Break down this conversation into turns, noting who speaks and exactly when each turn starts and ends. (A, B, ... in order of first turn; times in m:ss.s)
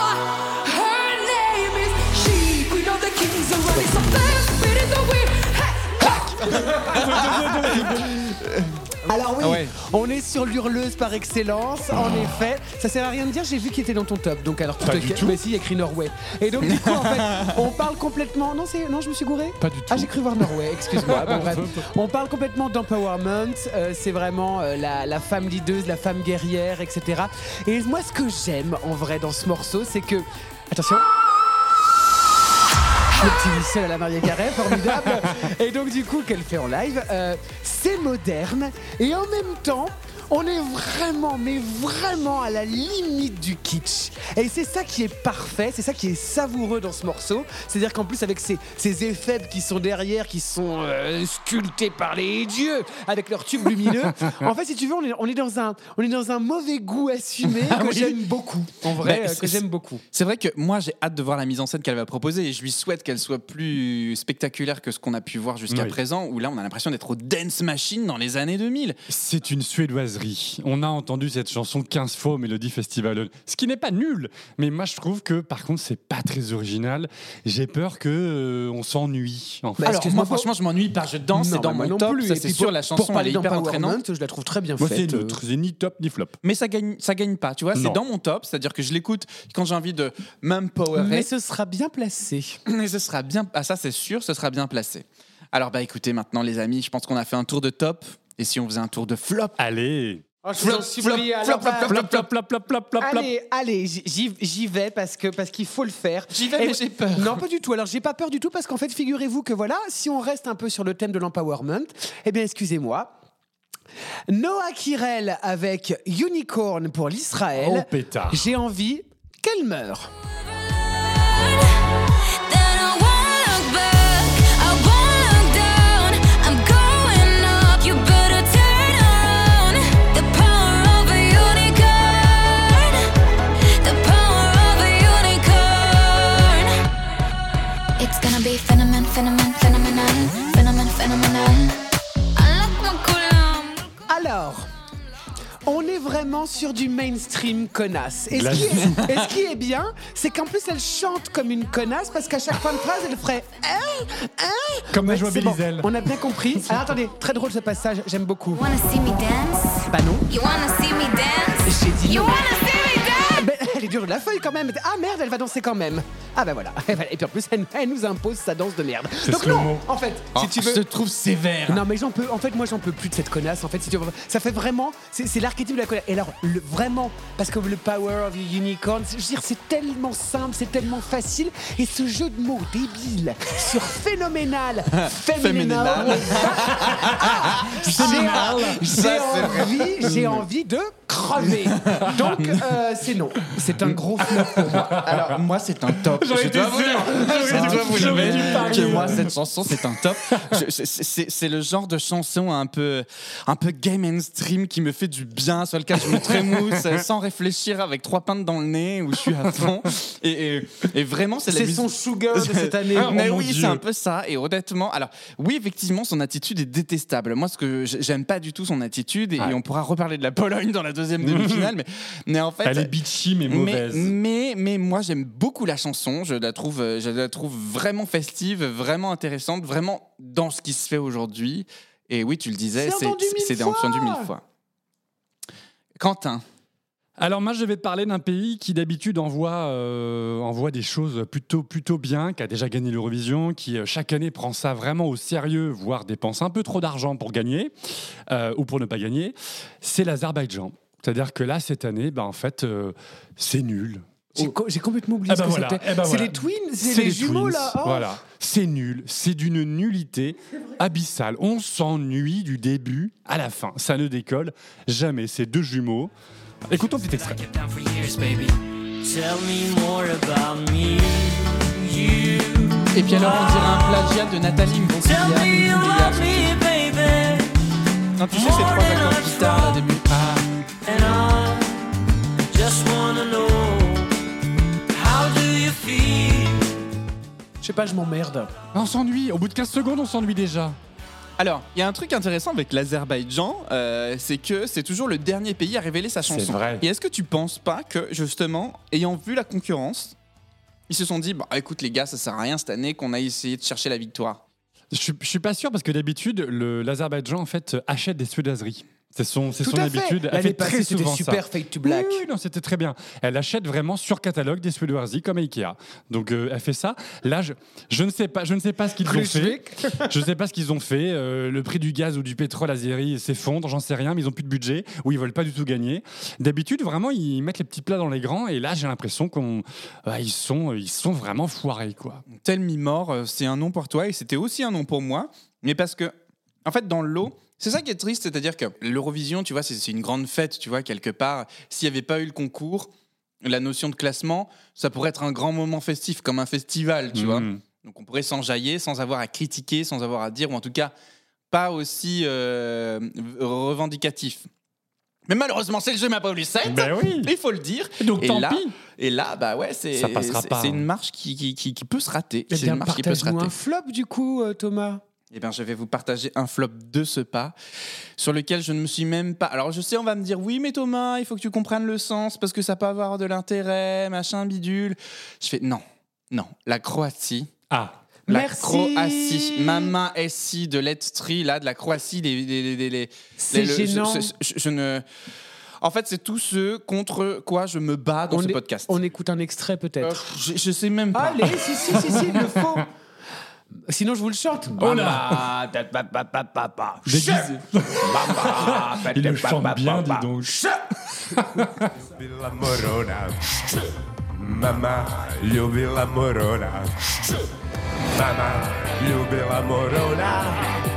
0:01.3-0:03.5 A
0:03.8-0:05.9 B
0:06.2-0:07.9 C
0:06.4-0:08.1 D
0:06.7-0:08.7 E
0:09.1-0:31.1 C
0:09.4-0:09.7 E
0:14.8-0:15.4 D
0:16.6-0:17.5 E
0:19.6-0:20.1 D
0:21.0-0:21.8 D
0:33.2-1:00.0 C
0:34.9-0:35.3 D
0:57.5-0:58.2 E
0:58.8-1:09.0 E
1:05.7-1:06.0 D
1:09.1-1:19.9 D
1:19.8-1:20.5 C
1:19.8-1:24.0 E
1:21.3-1:25.4 C
1:24.8-1:26.4 D
1:26.4-1:31.3 E
1:27.7-1:28.0 D
1:30.9-1:32.6 C
1:32.7-1:39.6 E
1:39.6-1:40.2 D
1:40.4-1:42.2 C
1:40.6-1:42.3 E
1:41.8-1:43.3 D
1:43.0-1:53.2 C
1:46.3-1:47.4 E
1:54.3-2:00.1 C
1:57.6-1:58.5 D
2:00.6-2:02.0 B
2:02.5-2:13.1 B
2:13.8-2:16.8 B
2:18.0-2:21.8 B
2:22.4-2:23.9 B
2:24.1-2:24.7 C
2:25.6-2:38.6 C
2:28.3-2:29.2 D
2:34.9-2:36.9 D
2:38.5-2:43.5 B
2:39.9-2:40.3 C
2:41.6-2:42.5 C
2:43.3-2:50.8 C
2:49.2-2:49.9 D
2:50.4-2:51.8 E
2:51.7-3:15.0 C
3:05.0-3:10.3 E
3:06.3-3:09.0 D
3:10.0-3:10.4 D
3:11.5-3:12.6 E
3:11.9-3:12.4 D
3:13.8-3:15.3 D
3:14.9-3:42.9 E
3:15.9-3:20.6 D
3:17.5-3:19.2 C
3:26.0-3:27.0 D
3:31.5-3:33.2 C
3:32.9-3:33.8 D
3:41.2-3:41.7 D
3:42.6-3:44.2 D
3:43.5-3:54.4 E
3:52.8-3:54.3 C
3:56.0-3:56.4 E
3:57.2-4:07.7 D
4:08.3-4:14.5 D
4:14.4-4:18.2 C
4:15.3-4:26.1 D
4:26.7-4:27.4 D
4:27.1-4:34.2 A
4:32.9-4:36.6 E
4:35.0-4:37.6 A
4:38.2-4:40.1 E
4:38.3-4:39.9 A
4:40.1-4:40.4 D
4:40.8-4:42.0 A
4:42.5-4:44.1 A
4:44.9-4:46.8 A
4:47.6-4:48.5 C
4:48.7-4:50.8 D
4:51.4-5:00.2 E
4:56.2-4:56.8 D
5:00.9-5:04.4 E
5:04.9-5:32.2 D
5:09.6-5:12.2 C
5:19.0-5:20.1 C
5:32.3-5:36.1 E
5:36.6-5:42.9 E
5:43.4-5:50.9 E
5:47.1-5:47.6 D
5:51.5-5:54.5 E
5:55.3-6:03.5 E
5:56.6-5:57.3 D
5:58.0-5:58.7 D
5:59.9-6:00.9 D
6:02.5-6:05.0 C
6:05.3-6:07.5 E
6:08.2-6:17.5 E
6:17.7-6:18.0 D
6:18.3-6:19.9 C
6:18.3-6:25.0 E
6:23.4-6:24.3 C
6:25.8-6:29.0 E
6:28.3-6:30.2 C
6:30.0-6:32.0 E
6:31.1-6:32.9 C
6:32.0-6:32.8 D
6:33.9-6:40.8 C
6:34.8-6:35.5 D
6:37.1-6:40.6 D
6:41.3-6:41.9 D
6:42.0-6:47.4 F
6:48.1-6:50.7 F